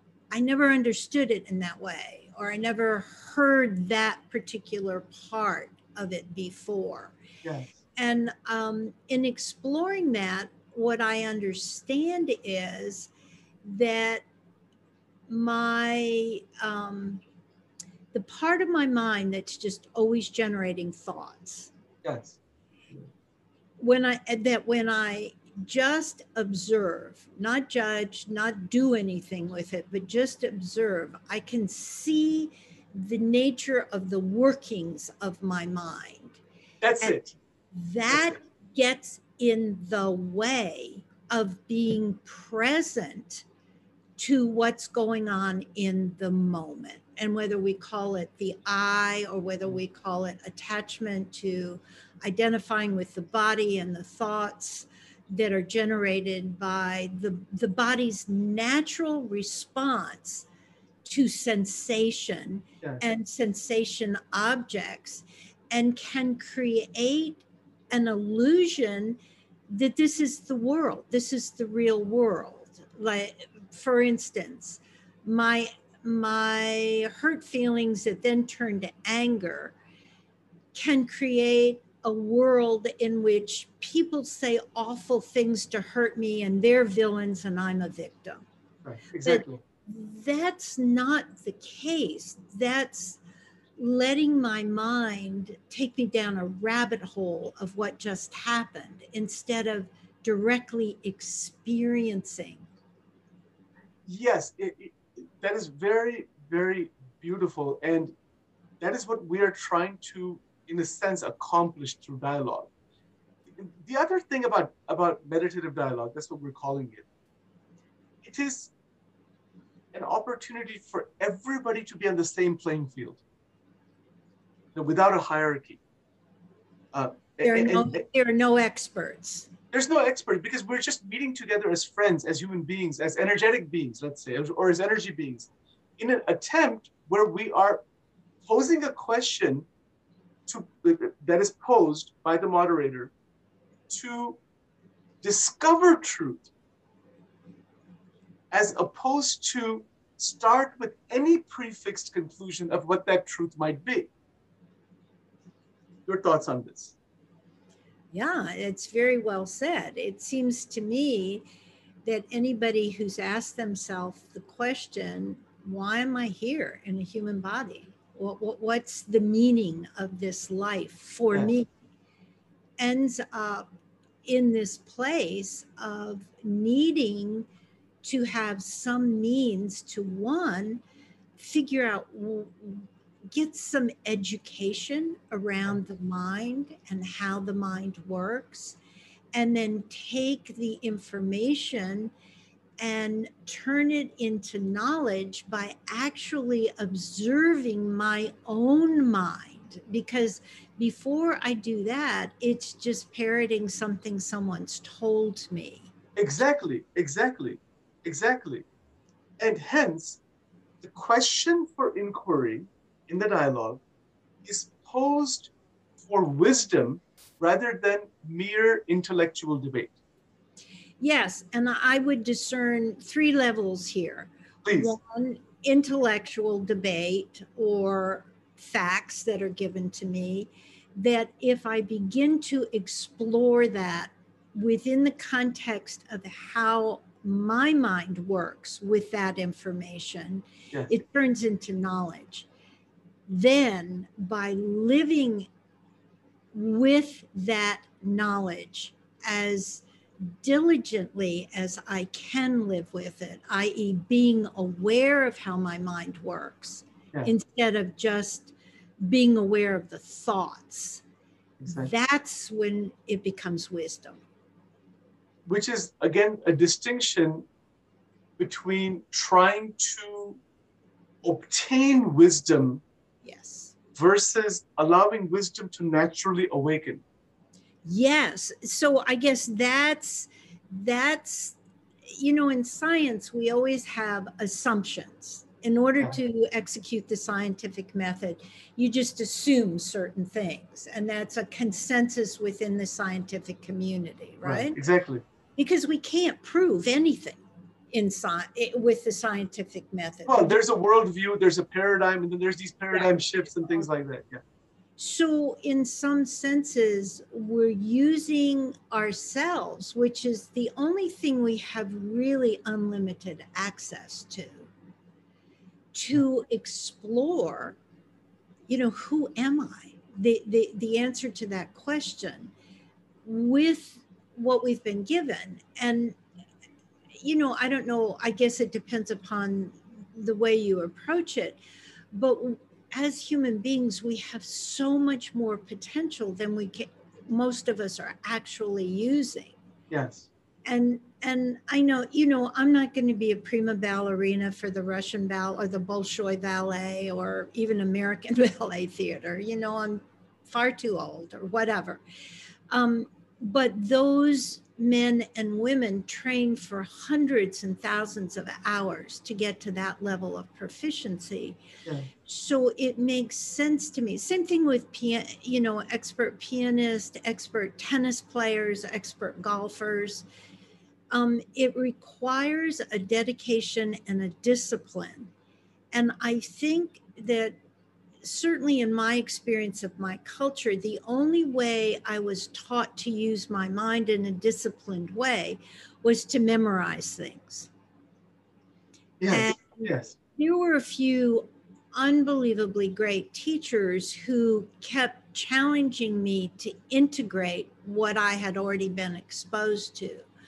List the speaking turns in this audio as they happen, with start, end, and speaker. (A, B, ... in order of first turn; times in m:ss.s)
0:00.3-0:07.1 A
0:07.4-0:07.7 B
0:08.0-0:13.1 A
0:13.6-0:14.2 A
0:15.3-0:17.2 A
0:18.1-0:21.7 A
0:22.0-0:22.4 B
0:23.8-0:36.4 A
0:36.8-0:37.3 B
0:37.7-0:43.4 A
0:44.2-1:00.4 A
1:01.0-1:09.2 A
1:09.7-1:19.7 A
1:20.7-1:28.4 A
1:28.8-1:29.6 B
1:29.2-1:33.2 A
1:33.8-1:42.7 A
1:44.0-1:48.1 B
1:48.8-1:52.7 B
1:53.5-1:57.0 B
1:58.2-1:58.7 B
1:59.9-2:03.2 B
2:04.7-2:05.8 B
2:06.9-2:08.0 B
2:07.4-2:09.5 A
2:09.7-2:17.8 B
2:18.4-2:19.6 B
2:20.5-2:23.1 B
2:23.9-2:24.4 B
2:25.2-2:26.5 B
2:28.5-2:34.1 B
2:36.1-2:36.9 B
2:38.1-2:41.4 A
2:42.0-2:51.7 A
2:52.8-2:53.6 A
2:54.2-2:57.4 A
2:58.0-3:00.8 A
3:01.4-3:08.8 A
3:09.3-3:12.1 A
3:12.8-3:25.9 A
3:26.2-3:28.6 B
3:29.4-3:30.2 B
3:30.8-3:33.8 B
3:34.4-3:40.0 B
3:41.0-4:02.5 A
3:44.6-3:44.9 B
4:03.3-4:05.5 A
4:06.5-4:21.0 A
4:21.6-4:21.9 B
4:21.7-4:24.2 A
4:25.4-4:27.4 B
4:28.4-4:30.4 B
4:31.2-4:32.8 B
4:33.2-4:33.7 A
4:33.9-4:37.0 B
4:37.8-4:41.6 A
4:42.1-4:54.8 A
4:54.4-4:55.2 B
4:55.6-5:00.6 A
5:00.2-5:04.4 B
5:05.0-5:14.7 A
5:15.9-5:17.8 A
5:18.7-5:22.5 A
5:23.2-5:26.2 A
5:27.2-5:31.6 A
5:32.1-5:39.5 A
5:39.9-5:40.3 B
5:40.6-5:52.0 A
5:52.7-6:01.6 A
6:02.2-6:10.2 A
6:11.1-6:15.3 A
6:15.9-6:17.6 A
6:18.2-6:27.7 A
6:29.2-6:30.1 B
6:29.3-6:40.2 A